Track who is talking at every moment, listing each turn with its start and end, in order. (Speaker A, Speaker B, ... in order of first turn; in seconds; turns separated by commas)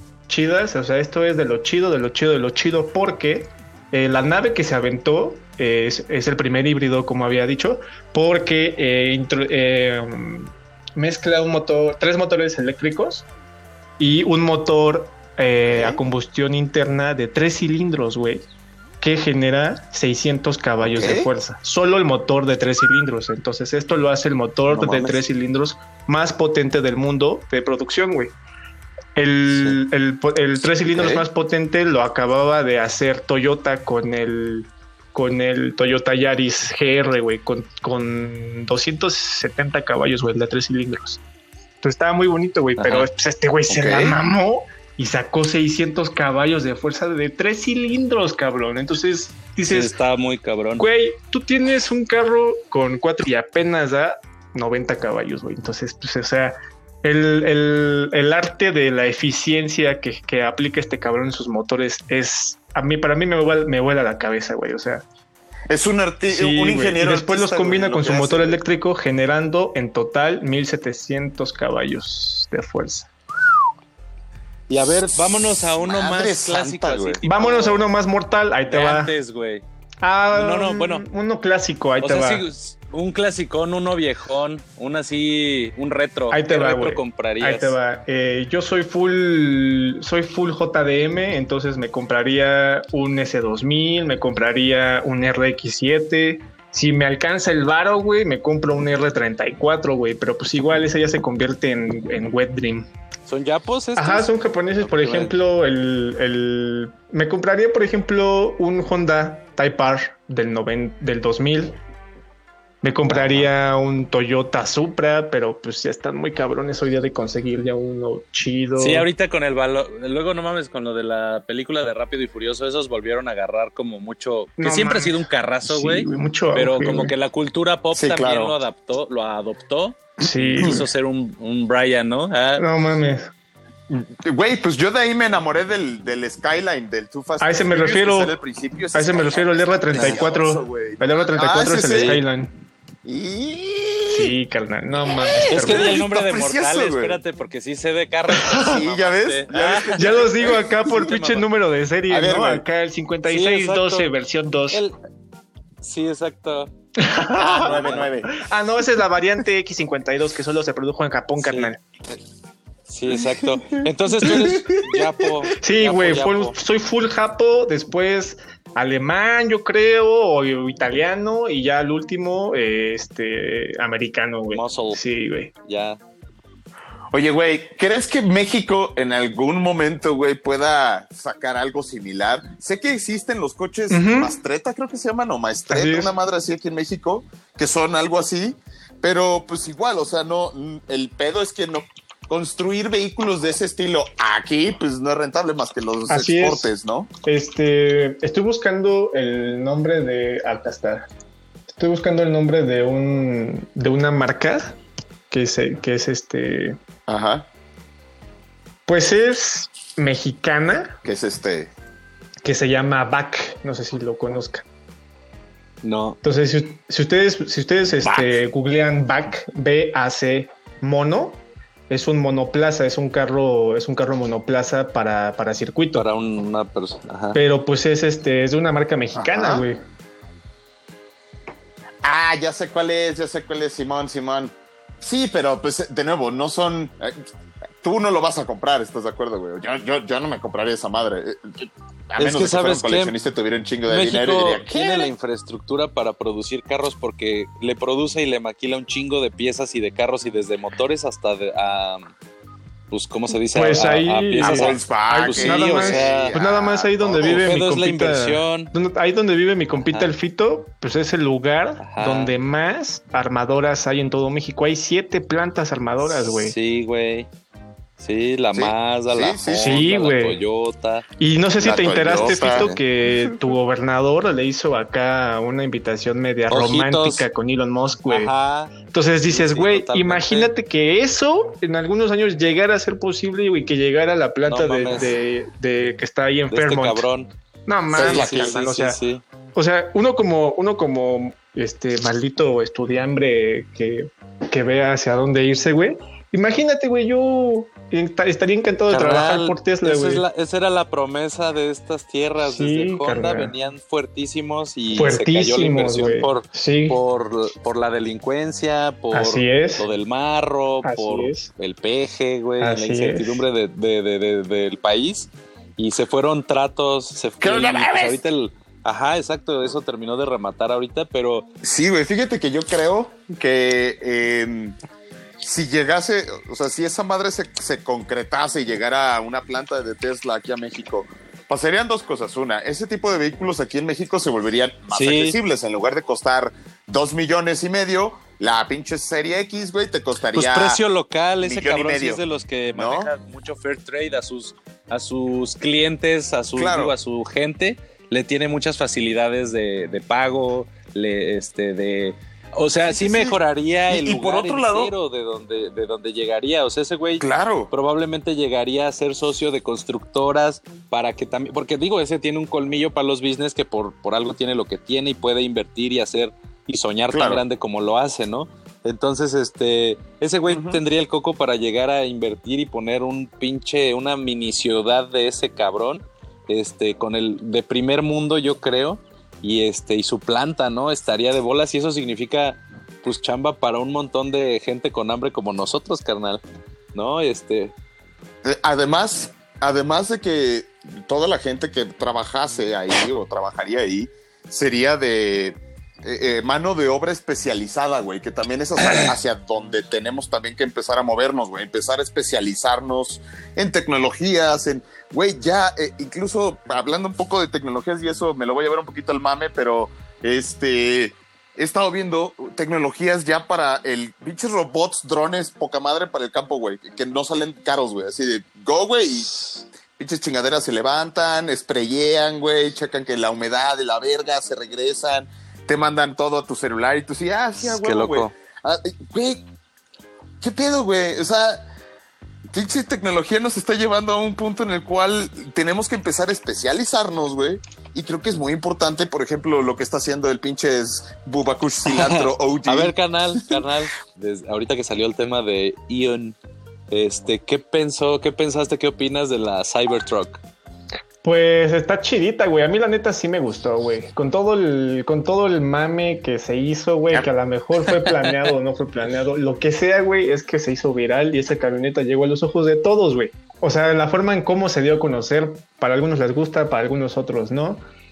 Speaker A: 0.3-13.2, Speaker A: 14.0-18.4, Speaker B: 15.7-16.0, Speaker A: 19.0-28.3, Speaker B: 20.8-21.3, Speaker B: 24.7-25.2, Speaker A: 29.1-41.2, Speaker B: 30.9-31.2, Speaker A: 41.8-49.9, Speaker C: 42.8-43.1, Speaker B: 43.7-44.2, Speaker C: 49.7-50.9, Speaker A: 50.8-65.0, Speaker B: 65.7-68.6, Speaker A: 66.3-73.1, Speaker C: 74.7-77.8, Speaker B: 75.1-77.2, Speaker A: 77.2-79.1, Speaker C: 78.7-79.6, Speaker A: 80.0-82.4, Speaker C: 80.3-81.0, Speaker C: 82.0-87.8, Speaker A: 86.3-102.9, Speaker C: 103.3-104.3, Speaker A: 104.0-111.8, Speaker C: 104.8-105.3, Speaker A: 112.8-119.1, Speaker C: 113.1-113.5, Speaker C: 118.8-132.6, Speaker A: 124.6-127.1, Speaker B: 127.9-128.6, Speaker A: 130.2-130.8, Speaker A: 132.6-133.3, Speaker B: 133.9-142.2, Speaker A: 137.4-138.3, Speaker A: 138.9-142.5, Speaker C: 139.9-140.2, Speaker C: 141.9-142.2, Speaker B: 143.0-144.3, Speaker A: 144.1-146.0, Speaker B: 145.0-147.2, Speaker C: 145.5-150.2, Speaker A: 148.3-148.8, Speaker B: 148.6-151.1, Speaker A: 150.0-154.8, Speaker C: 151.0-151.4, Speaker B: 152.1-152.6, Speaker C: 153.2-154.1, Speaker C: 154.7-154.9, Speaker C: 155.8-156.7, Speaker A: 156.9-161.8, Speaker C: 157.4-158.1, Speaker B: 157.4-158.4, Speaker C: 161.4-162.2, Speaker C: 162.9-166.6, Speaker B: 163.7-165.1, Speaker A: 165.6-175.5, Speaker C: 174.5-175.0, Speaker C: 175.6-176.0, Speaker B: 177.1-197.1, Speaker A: 183.9-184.4, Speaker A: 185.7-186.1, Speaker A: 196.1-196.7, Speaker A: 197.2-201.1, Speaker A: 201.7-204.7, Speaker A: 205.3-206.8, Speaker B: 207.1-207.4, Speaker A: 208.9-210.9, Speaker B: 211.0-211.7, Speaker A: 212.4-214.6, Speaker C: 215.8-216.2, Speaker A: 216.2-226.1, Speaker C: 225.9-227.4, Speaker A: 227.3-229.8, Speaker B: 229.2-229.7, Speaker B: 232.0-237.2, Speaker B: 237.8-245.1, Speaker C: 242.2-243.1, Speaker C: 243.9-252.1, Speaker C: 252.9-256.3, Speaker A: 253.5-266.6, Speaker B: 254.4-257.5, Speaker C: 257.2-258.7, Speaker C: 259.8-260.1, Speaker C: 261.8-262.3, Speaker C: 266.0-267.3, Speaker C: 268.0-271.0, Speaker B: 268.5-269.9, Speaker A: 269.6-270.4, Speaker A: 271.2-278.3, Speaker B: 271.6-272.7, Speaker C: 272.3-272.8, Speaker C: 276.5-277.2, Speaker C: 278.1-278.8, Speaker A: 278.9-287.1, Speaker C: 279.3-280.5, Speaker C: 284.4-285.1, Speaker C: 286.5-287.3, Speaker A: 287.7-289.0, Speaker B: 287.9-288.5, Speaker C: 287.9-289.2, Speaker A: 289.5-300.2, Speaker C: 298.9-321.4, Speaker A: 302.4-303.5, Speaker A: 304.9-307.0, Speaker A: 309.1-309.9, Speaker A: 310.8-311.5, Speaker A: 312.6-313.4, Speaker B: 317.4-318.2, Speaker B: 321.6-324.8, Speaker B: 325.4-340.8, Speaker C: 334.9-335.4, Speaker C: 340.3-386.4, Speaker B: 341.4-343.1, Speaker B: 346.6-346.9, Speaker B: 352.9-354.9, Speaker B: 357.2-357.7, Speaker B: 367.1-367.4, Speaker B: 370.5-370.8, Speaker C: 386.9-387.7, Speaker B: 388.4-429.4, Speaker C: 427.6-428.3, Speaker B: 430.4-431.6, Speaker B: 432.5-443.6, Speaker C: 441.9-446.4, Speaker C: 446.9-450.4, Speaker A: 451.2-467.8, Speaker C: 457.9-458.3